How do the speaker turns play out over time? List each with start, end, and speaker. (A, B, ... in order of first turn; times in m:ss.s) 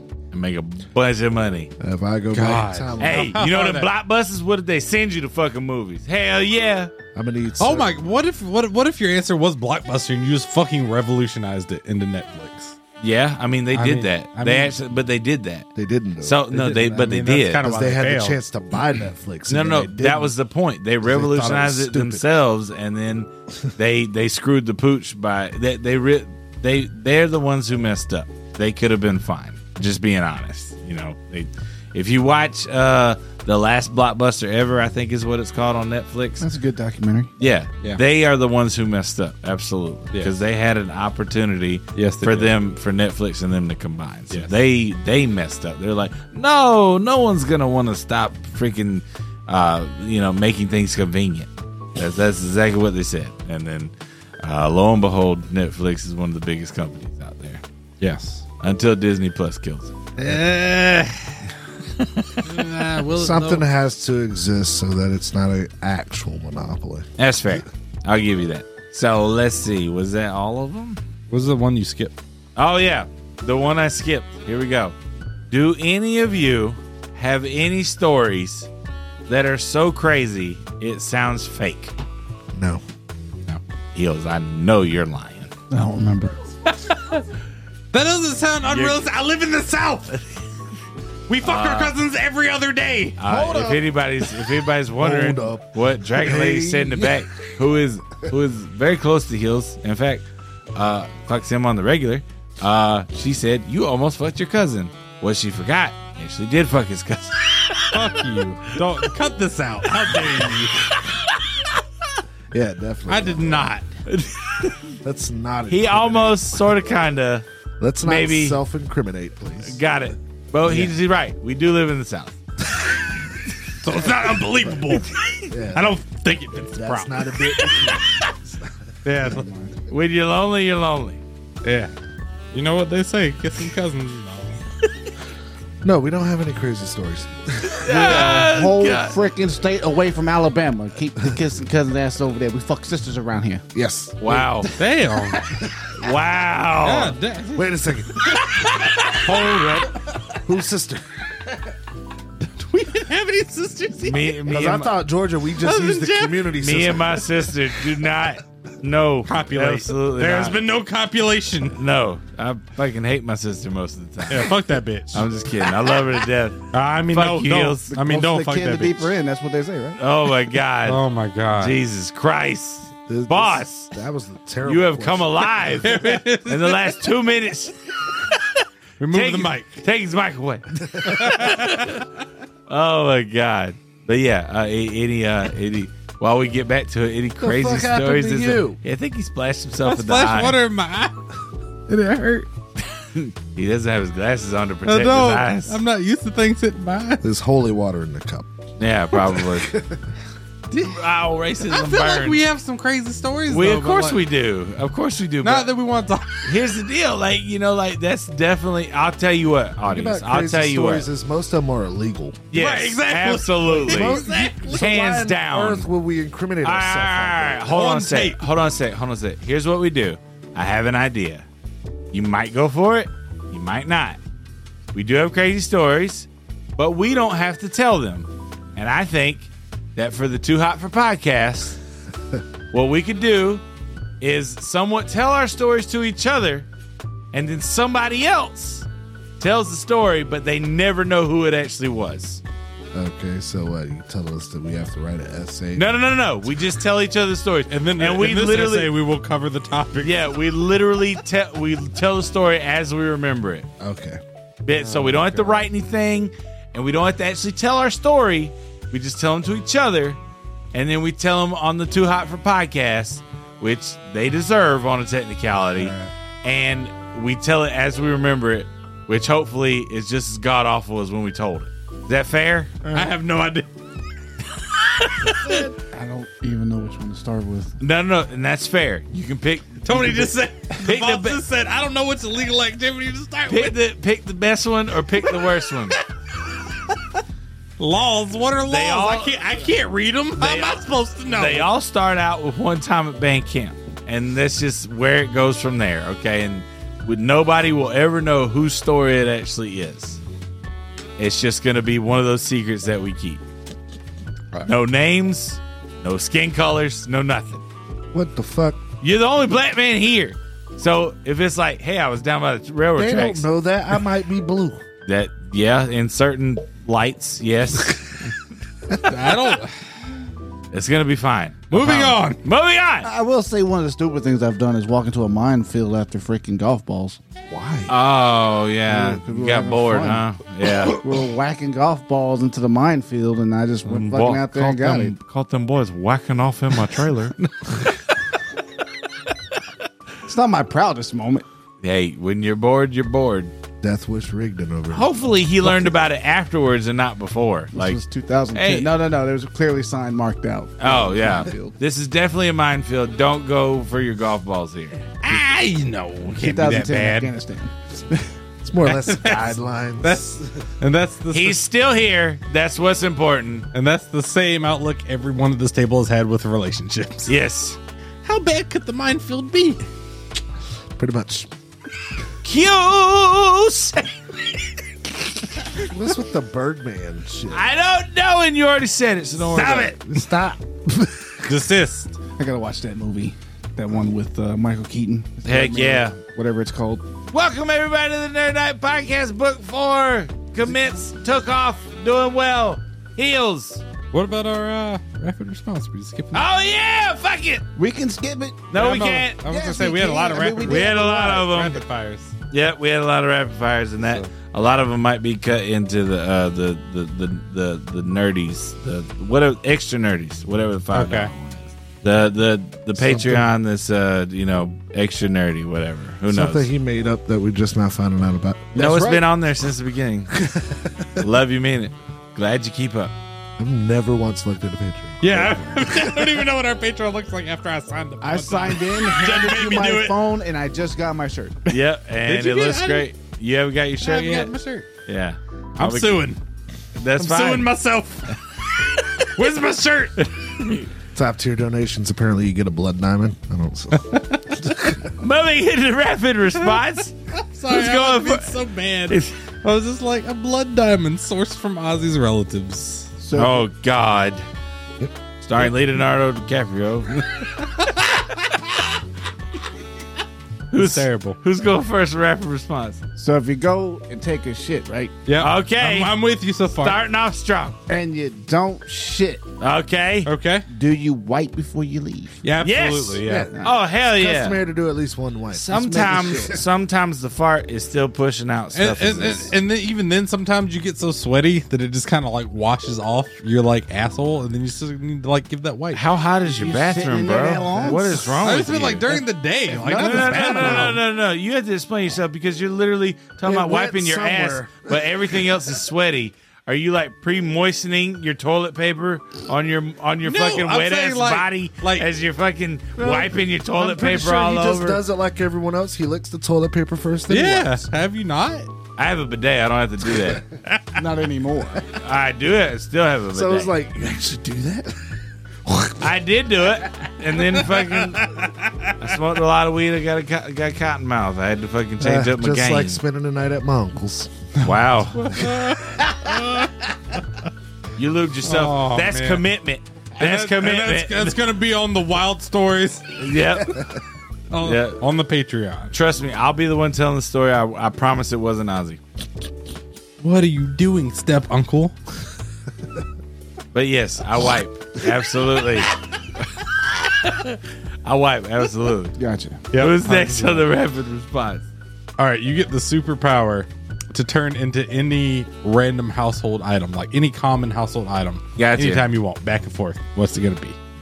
0:00.3-0:01.7 A
0:01.8-0:03.4 B
0:02.3-0:03.9 C
0:03.0-0:06.9 A
0:07.2-0:07.9 B
0:07.6-0:12.8 C
0:13.0-0:15.7 A
0:13.7-0:14.8 C
0:15.8-0:16.5 B
0:16.2-0:17.6 A
0:16.5-0:18.4 C
0:17.6-0:20.3 B
0:19.5-0:36.5 A
0:21.0-0:22.2 B
0:36.4-0:37.3 D
0:37.4-0:57.6 A
0:42.0-0:42.5 C
0:58.0-0:58.4 C
0:58.6-1:00.0 A
1:00.2-1:01.5 C
1:01.9-1:02.4 A
1:02.4-1:03.7 C
1:03.1-1:07.1 B
1:07.2-1:11.0 A
1:11.3-1:12.2 C
1:12.6-1:15.0 A
1:15.5-1:18.7 A
1:19.3-1:21.9 A
1:22.5-1:22.8 B
1:24.0-1:25.5 A
1:25.7-1:26.4 D
1:26.7-1:27.2 C
1:27.9-1:30.4 C
1:28.6-1:29.0 A
1:31.3-1:33.2 C
1:31.4-1:32.0 A
1:33.2-1:40.2 A
1:33.2-1:33.9 B
1:35.0-1:37.2 B
1:40.8-1:48.1 A
1:47.9-1:50.9 C
1:50.0-1:51.2 A
1:52.5-1:53.7 B
1:53.1-1:53.8 C
1:54.1-1:54.9 A
1:55.0-1:56.7 B
1:55.7-1:57.4 A
1:57.8-1:59.8 B
1:58.0-1:58.6 A
1:59.6-2:02.4 A
2:03.8-2:07.7 C
2:05.5-2:06.0 B
2:06.7-2:08.9 B
2:09.0-2:09.5 C
2:09.2-2:09.8 D
2:09.9-2:11.2 A
2:11.6-2:11.9 C
2:12.5-2:14.6 C
2:15.8-2:17.9 B
2:17.8-2:19.2 A
2:17.8-2:23.7 D
2:23.7-2:24.8 B
2:24.2-2:24.7 A
2:24.8-2:25.4 C
2:25.9-2:27.2 A
2:26.8-2:27.9 C
2:27.6-2:28.4 B
2:28.8-2:29.9 A
2:29.1-2:29.6 C
2:30.3-2:31.0 B
2:32.6-2:34.4 C
2:34.0-2:34.9 A
2:34.4-2:37.5 B
2:35.6-2:36.5 C
2:36.6-2:40.6 A
2:39.3-2:41.8 C
2:41.7-2:44.5 A
2:44.3-2:45.3 C
2:45.1-2:47.9 A
2:46.7-2:49.1 C
2:47.9-2:50.0 D
2:50.0-2:51.0 A
2:50.8-2:51.8 C
2:51.6-2:53.9 A
2:53.1-2:55.6 B
2:54.6-2:57.8 A
2:55.8-2:57.0 C
2:59.0-2:59.8 C
2:59.1-3:02.0 A
3:01.0-3:02.0 C
3:02.7-3:10.6 A
3:07.4-3:08.8 B
3:09.8-3:11.2 C
3:11.9-3:12.5 C
3:13.1-3:15.8 A
3:14.8-3:17.2 C
3:17.2-3:18.5 B
3:18.8-3:19.8 A
3:19.7-3:20.0 B
3:20.7-3:22.4 A
3:21.6-3:24.2 C
3:23.5-3:25.7 A
3:25.4-3:26.5 C
3:26.4-3:31.1 A
3:29.9-3:32.4 B
3:32.5-3:35.9 A
3:32.5-3:34.9 C
3:33.8-3:37.8 B
3:36.6-3:41.5 A
3:37.7-3:38.4 C
3:42.1-3:44.2 A
3:44.9-3:51.8 A
3:52.7-3:53.6 A
3:54.2-3:56.7 A
3:57.3-3:58.9 A
3:59.4-4:02.4 A
4:02.9-4:05.9 B
4:05.8-4:08.9 A
4:07.7-4:10.2 C
4:10.0-4:13.7 A
4:13.8-4:14.2 B
4:14.6-4:20.2 A
4:14.8-4:15.7 B
4:20.7-4:32.8 A
4:25.8-4:26.1 B
4:32.8-4:33.1 B
4:32.9-4:33.7 C
4:34.8-4:35.5 C
4:35.3-4:37.8 D
4:37.8-4:41.4 A
4:39.8-4:43.8 C
4:43.5-4:46.0 A
4:46.4-4:47.2 C
4:47.8-4:51.7 C
4:48.7-4:49.6 A
4:50.4-5:00.2 A
5:01.2-5:03.4 A
5:04.6-5:07.6 A
5:08.1-5:08.8 B
5:09.0-5:13.5 A
5:13.0-5:14.8 B
5:15.1-5:18.1 A
5:19.0-5:19.8 C
5:20.7-5:23.1 A
5:21.7-5:22.4 C
5:23.0-5:27.2 D
5:27.5-5:27.9 B
5:27.9-5:31.0 A
5:28.9-5:30.2 D
5:30.9-5:35.2 D
5:33.8-5:37.4 A
5:40.3-5:41.5 D
5:41.8-5:43.5 A
5:43.8-5:45.9 B
5:44.9-5:48.0 A
5:47.7-5:51.8 D
5:48.5-5:48.9 A
5:50.8-5:55.0 A
5:55.2-5:57.3 C
5:56.4-5:57.7 D
5:58.6-6:00.7 B
5:58.8-6:01.6 C
6:01.3-6:03.7 A
6:03.7-6:07.3 C
6:07.3-6:07.8 A
6:08.2-6:09.8 C
6:11.0-6:11.5 B
6:12.4-6:14.2 A
6:15.8-6:17.6 B
6:17.5-6:20.0 A
6:19.5-6:21.6 B
6:21.5-6:22.1 C
6:22.4-6:27.0 D
6:25.4-6:26.2 A
6:27.3-6:33.8 A
6:34.1-6:36.5 C
6:36.3-6:37.6 A
6:37.8-6:38.7 D
6:38.7-6:39.4 A
6:38.7-6:42.3 C
6:39.4-6:41.6 D
6:40.6-6:41.8 A
6:42.5-6:56.7 A
6:44.0-6:44.3 C
6:50.9-6:51.3 C
6:53.0-6:53.5 B
6:56.3-6:58.8 B
6:58.8-6:59.3 C
6:58.8-7:00.4 A
7:00.3-7:01.2 B
7:01.2-7:03.1 A
7:03.6-7:06.4 B
7:05.2-7:10.2 C
7:08.2-7:11.7 D
7:11.7-7:14.5 A
7:12.2-7:13.1 C
7:14.0-7:14.9 C
7:15.1-7:16.3 A
7:15.8-7:16.4 C
7:17.0-7:17.7 A
7:17.2-7:20.2 C
7:20.2-7:20.9 A
7:21.1-7:25.1 B
7:24.0-7:24.8 C
7:25.2-7:27.2 A
7:26.6-7:33.1 C
7:27.7-7:29.3 A
7:33.2-7:33.7 D
7:33.3-7:34.4 A
7:35.4-7:37.7 A
7:38.0-7:38.5 C
7:40.7-7:43.0 A
7:40.8-7:41.4 C
7:43.2-7:45.1 D
7:45.3-7:47.0 C
7:45.4-7:46.2 A
7:46.8-7:47.8 A
7:47.9-7:49.4 D
7:49.6-7:50.3 A
7:50.2-7:50.7 C
7:50.7-7:52.4 D
7:52.4-7:53.3 C
7:52.6-7:54.6 A
7:53.2-7:53.5 B
7:54.1-7:56.6 B
7:55.5-7:59.5 A
7:55.7-7:56.6 D
7:58.7-8:06.0 C
8:05.9-8:09.1 A
8:06.4-8:08.4 D
8:08.4-8:11.0 C
8:09.1-8:10.8 D
8:09.9-8:25.0 A
8:09.9-8:11.0 B
8:13.4-8:15.2 B
8:20.2-8:22.1 C
8:23.0-8:27.9 B
8:27.3-8:28.7 C
8:29.0-8:30.4 A
8:31.0-8:31.9 D
8:31.9-8:33.7 A
8:33.3-8:36.0 B
8:36.0-8:38.3 A
8:37.6-8:38.9 C
8:39.0-8:43.0 A
8:42.0-8:44.3 B
8:44.6-8:45.4 A
8:45.2-8:46.8 C
8:48.0-8:51.4 A
8:48.4-8:49.4 C
8:50.2-8:53.1 C
8:53.2-8:53.8 A
8:54.5-8:56.0 C
8:54.6-8:55.0 A
8:55.9-8:59.0 A
9:00.2-9:01.9 C
9:03.7-9:05.9 A
9:07.1-9:09.2 A
9:09.2-9:09.6 D
9:09.7-9:10.7 C
9:09.8-9:11.7 A
9:12.2-9:20.8 C
9:18.6-9:19.1 A